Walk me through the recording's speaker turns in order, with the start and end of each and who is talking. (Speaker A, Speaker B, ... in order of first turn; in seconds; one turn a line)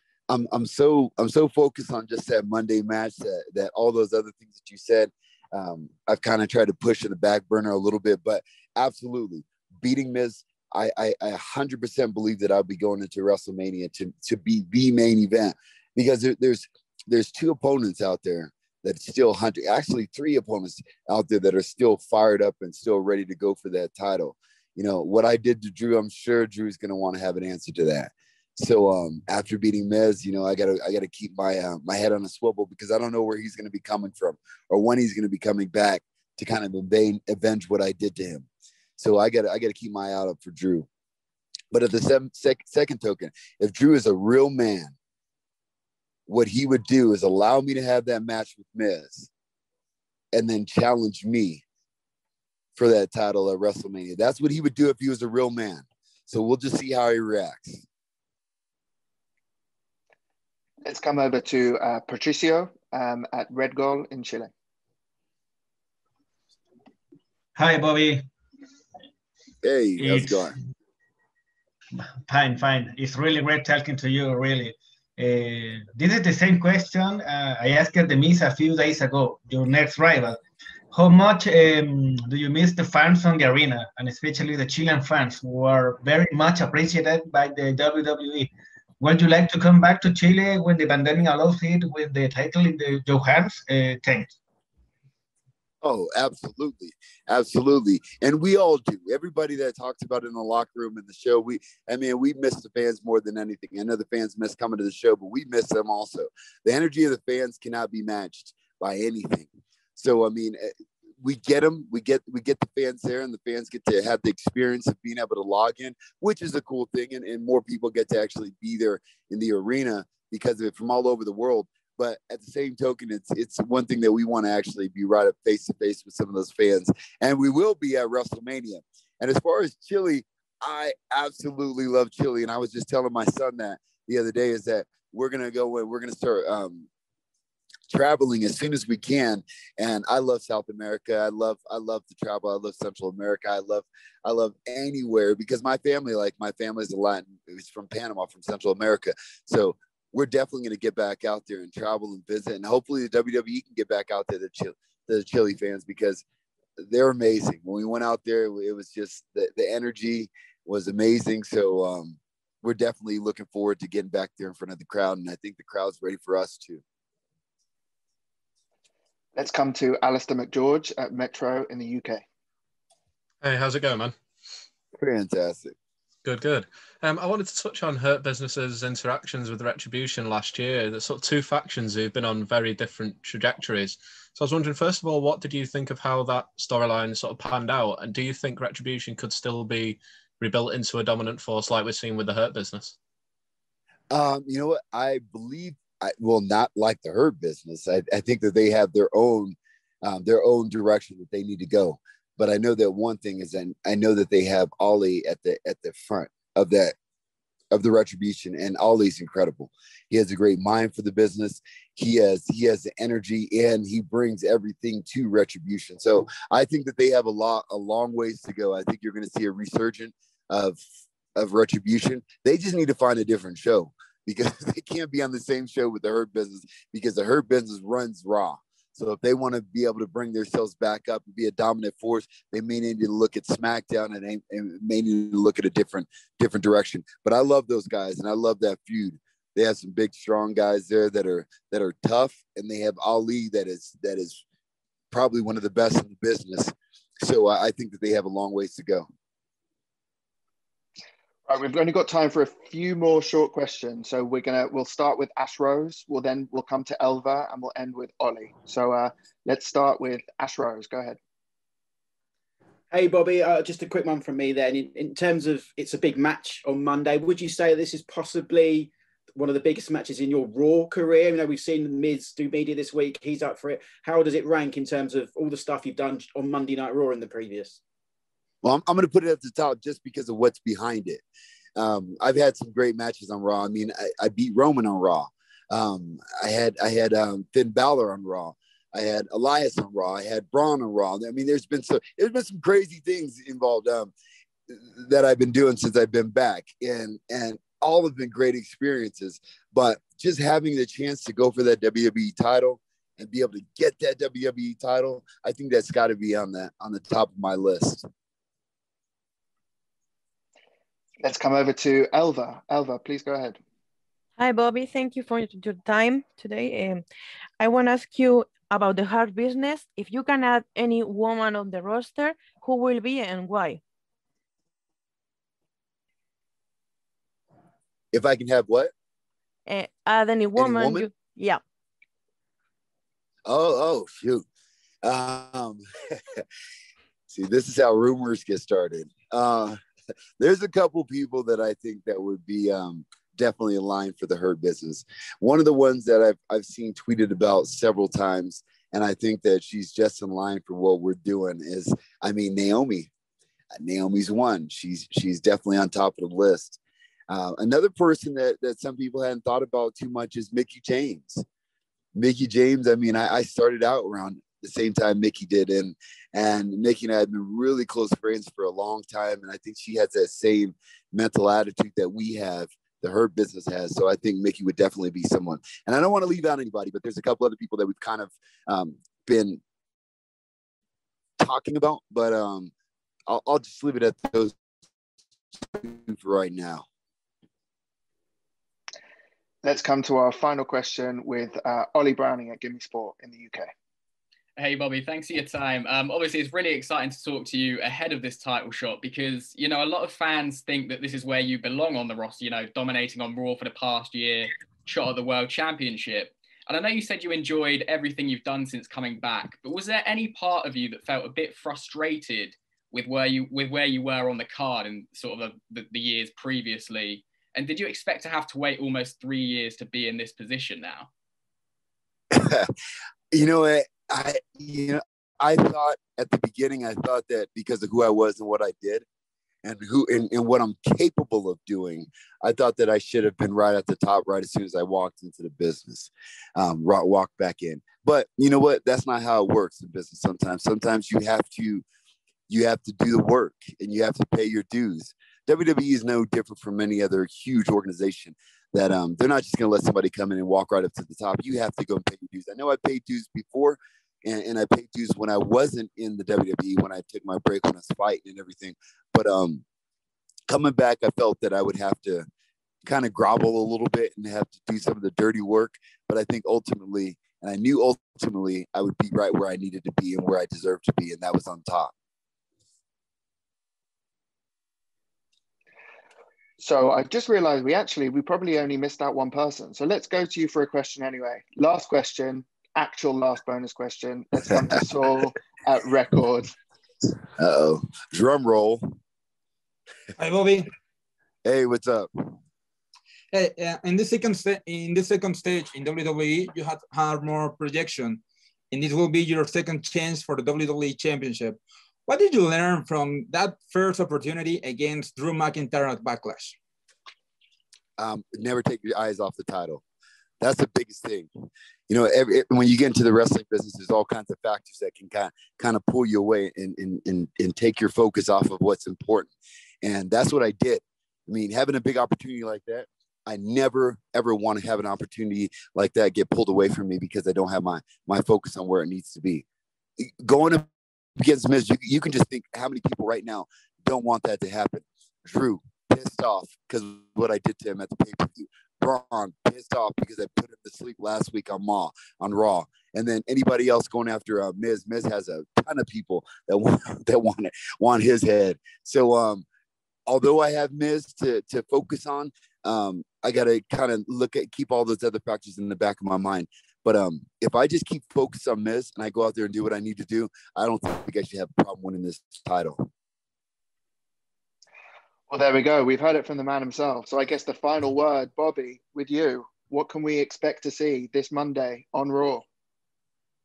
Speaker A: 0.3-38.5
Speaker A: 39.0-40.9
Speaker A: 41.7-44.9
Speaker A: 46.3-49.3
Speaker A: 50.3-51.6
Speaker A: 52.8-57.8
Speaker B: 60.8-64.5
Speaker C: 67.5-68.2
Speaker A: 69.6-70.5
Speaker C: 70.0-70.5
Speaker C: 72.0-80.4
Speaker C: 80.9-94.3
Speaker A: 95.8-110.7
Speaker A: 111.2-136.9
Speaker A: 137.9-156.2
Speaker A: 156.8-166.8
Speaker B: 169.3-172.2
Speaker D: 173.4-174.1
Speaker A: 175.0-175.8
Speaker D: 176.2-192.9
Speaker A: 194.1-206.9
Speaker A: 207.7-220.8
Speaker A: 221.3-244.4
Speaker A: 245.1-249.1
Speaker B: 251.5-261.2
Speaker E: 262.9-277.8
Speaker A: 278.6-281.2
Speaker A: 281.8-294.1
Speaker A: 294.7-308.1
Speaker B: 311.2-313.6
Speaker F: 314.4-317.0
Speaker F: 317.6-323.8
Speaker A: 328.1-328.9
Speaker F: 329.7-331.6
Speaker A: 330.5-331.1
Speaker A: 333.5-334.4
Speaker A: 335.0-336.4
Speaker A: 337.3-339.8
Speaker A: 340.4-353.1
Speaker A: 353.7-361.4
Speaker A: 362.1-379.6
Speaker A: 381.4-382.7
Speaker A: 383.3-384.6
Speaker A: 385.5-386.8
Speaker B: 389.6-393.7
Speaker G: 394.6-421.1
Speaker A: 422.3-422.7
Speaker A: 423.3-429.0
Speaker A: 429.6-441.8
Speaker A: 442.5-459.6
Speaker A: 460.5-462.3
Speaker A: 462.9-471.9
Speaker B: 476.6-486.5
Speaker A: 487.4-488.9
Speaker H: 490.2-490.7
Speaker A: 491.4-492.1
Speaker H: 493.3-498.2
Speaker H: 498.7-506.6
Speaker A: 508.0-509.8
Speaker A: 510.4-511.3
Speaker A: 511.9-519.3
Speaker A: 519.8-529.4
Speaker A: 530.0-530.7
Speaker A: 531.2-549.4
Speaker A: 550.1-562.9
Speaker B: 565.3-572.5